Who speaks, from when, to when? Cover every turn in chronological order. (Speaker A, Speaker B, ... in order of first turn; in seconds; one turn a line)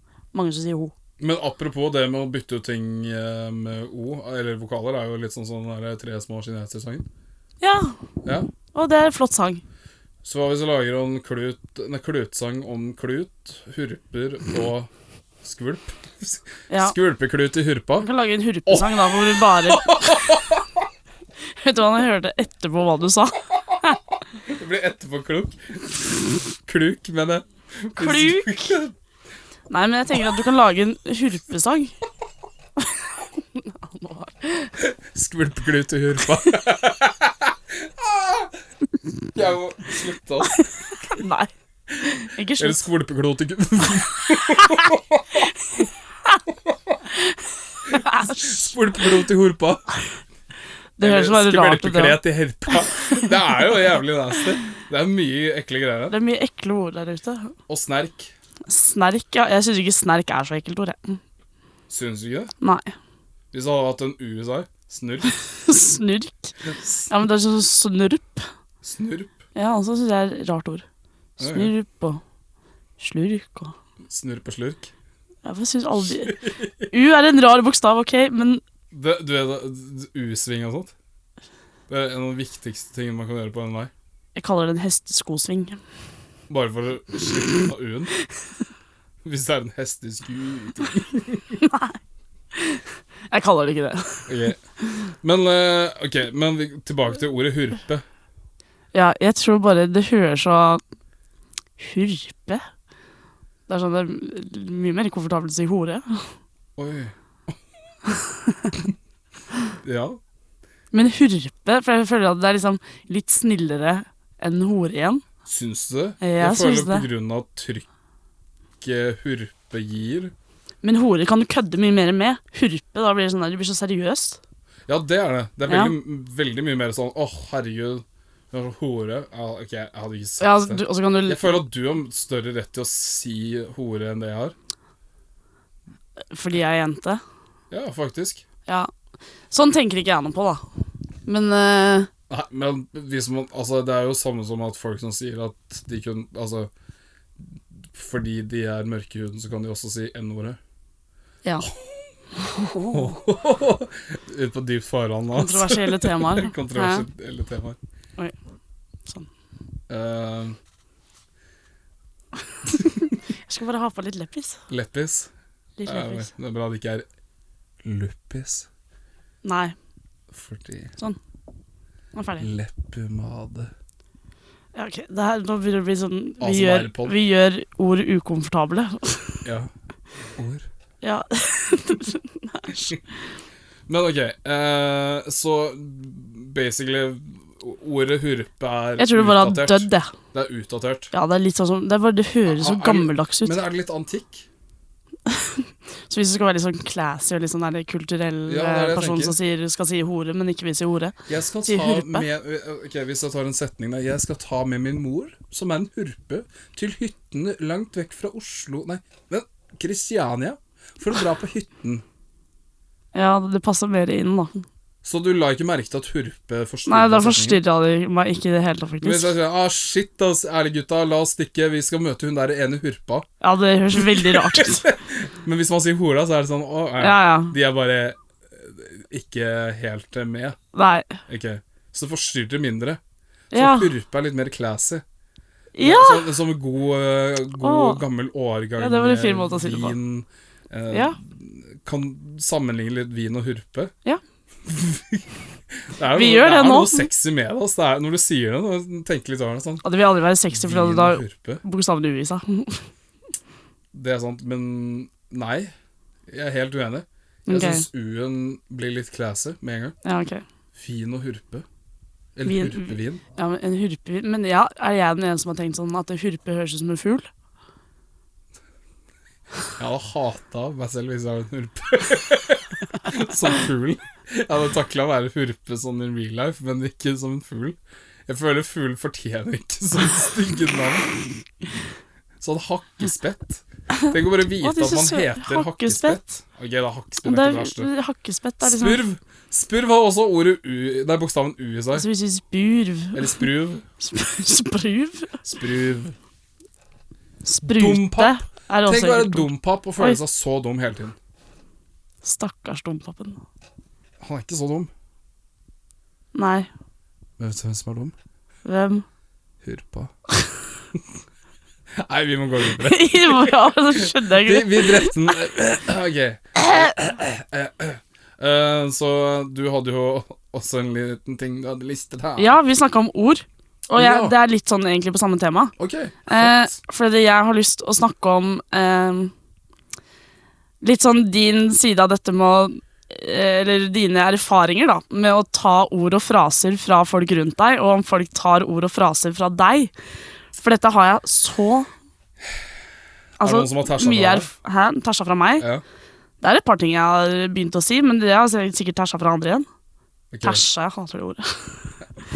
Speaker A: 0.3-0.9
Speaker B: 1.2-7.1
Speaker A: 7.6-8.0
Speaker A: 8.7-9.6
Speaker B: 10.2-14.9
Speaker B: 15.4-18.1
Speaker A: 16.7-16.9
Speaker A: 18.0-20.4
Speaker B: 18.7-20.8
Speaker A: 21.6-24.0
Speaker B: 24.4-28.9
Speaker A: 28.0-28.8
Speaker A: 29.7-31.9
Speaker A: 32.8-34.7
Speaker B: 34.8-38.6
Speaker B: 39.3-40.6
Speaker A: 40.5-42.8
Speaker B: 42.6-45.9
Speaker A: 44.5-44.9
Speaker A: 45.4-46.4
Speaker B: 46.7-47.0
Speaker A: 47.1-49.0
Speaker B: 47.9-49.8
Speaker A: 51.0-52.2
Speaker B: 51.0-56.1
Speaker A: 52.7-53.7
Speaker A: 56.1-57.5
Speaker B: 57.7-58.3
Speaker A: 58.7-61.2
Speaker B: 61.9-62.5
Speaker A: 62.6-62.9
Speaker B: 63.5-65.3
Speaker A: 65.5-66.5
Speaker B: 66.6-67.1
Speaker A: 67.1-68.5
Speaker B: 68.8-69.3
Speaker A: 69.5-70.8
Speaker A: 71.4-72.2
Speaker B: 71.4-71.7
Speaker A: 73.0-73.8
Speaker B: 74.0-74.9
Speaker A: 75.5-76.4
Speaker B: 76.0-76.9
Speaker A: 76.9-78.6
Speaker B: 78.9-80.9
Speaker B: 81.9-83.9
Speaker A: 84.4-85.8
Speaker B: 86.5-88.1
Speaker B: 89.2-91.6
Speaker A: 91.6-92.0
Speaker A: 92.5-94.3
Speaker B: 94.3-94.6
Speaker B: 95.2-98.0
Speaker A: 98.9-100.8
Speaker A: 101.8-102.6
Speaker A: 103.7-106.3
Speaker B: 106.8-107.6
Speaker A: 108.1-108.8
Speaker B: 109.8-110.2
Speaker A: 110.9-115.2
Speaker B: 115.5-117.9
Speaker A: 116.2-117.1
Speaker B: 118.8-120.3
Speaker A: 120.8-124.4
Speaker B: 124.9-134.6
Speaker A: 125.7-125.9
Speaker A: 130.4-131.5
Speaker A: 136.3-137.2
Speaker B: 137.7-138.4
Speaker A: 139.5-140.6
Speaker A: 141.3-142.1
Speaker B: 142.3-146.7
Speaker B: 147.4-150.6
Speaker B: 151.6-152.1
Speaker A: 152.5-153.1
Speaker B: 152.6-157.8
Speaker A: 155.3-157.1
Speaker B: 159.9-160.6
Speaker A: 162.5-164.6
Speaker B: 164.7-165.3
Speaker A: 165.8-166.3
Speaker B: 165.9-167.1
Speaker B: 167.8-168.7
Speaker A: 169.4-169.8
Speaker B: 170.3-170.9
Speaker A: 172.2-172.5
Speaker B: 172.4-173.7
Speaker A: 174.8-179.4
Speaker B: 176.4-177.1
Speaker B: 179.4-179.7
Speaker B: 180.4-180.7
Speaker A: 181.0-183.0
Speaker B: 183.9-191.1
Speaker A: 189.0-190.1
Speaker A: 191.1-193.6
Speaker B: 192.5-194.5
Speaker A: 195.3-201.2
Speaker B: 198.5-199.4
Speaker B: 201.3-212.0
Speaker A: 201.7-202.3
Speaker A: 213.1-214.7
Speaker B: 215.0-217.6
Speaker A: 216.9-219.3
Speaker B: 219.0-223.3
Speaker A: 223.4-224.8
Speaker B: 223.9-230.6
Speaker A: 227.0-227.5
Speaker A: 230.7-231.2
Speaker B: 231.3-233.0
Speaker A: 233.5-233.9
Speaker B: 233.5-235.0
Speaker A: 235.8-236.3
Speaker B: 235.8-243.9
Speaker A: 237.6-238.0
Speaker A: 238.8-240.0
Speaker A: 240.9-241.2
Speaker B: 244.7-249.8
Speaker A: 246.1-247.1
Speaker A: 249.8-252.8
Speaker B: 250.5-251.6
Speaker B: 253.9-255.7
Speaker B: 256.3-259.9
Speaker A: 257.5-257.9
Speaker A: 260.0-260.4
Speaker B: 260.7-261.7
Speaker B: 262.4-263.2
Speaker A: 262.4-267.3
Speaker B: 269.8-281.1
Speaker B: 282.4-287.9
Speaker A: 283.9-286.2
Speaker A: 287.2-289.0
Speaker B: 288.6-292.1
Speaker A: 291.9-293.5
Speaker B: 293.1-293.9
Speaker A: 294.0-295.4
Speaker B: 295.4-296.2
Speaker A: 297.4-300.2
Speaker B: 297.7-301.2
Speaker A: 302.2-303.4
Speaker B: 304.2-304.9
Speaker A: 306.3-306.7
Speaker B: 307.4-308.1
Speaker A: 308.6-309.0
Speaker B: 309.6-310.1
Speaker B: 312.0-322.6
Speaker A: 312.6-315.3
Speaker A: 316.6-317.0
Speaker A: 322.4-325.7
Speaker B: 323.9-324.4
Speaker B: 325.8-326.7
Speaker A: 326.3-329.3
Speaker A: 330.8-339.9
Speaker A: 340.5-341.9
Speaker B: 343.4-344.5
Speaker A: 343.4-345.6
Speaker A: 346.4-349.7
Speaker B: 350.3-350.6
Speaker A: 350.4-351.9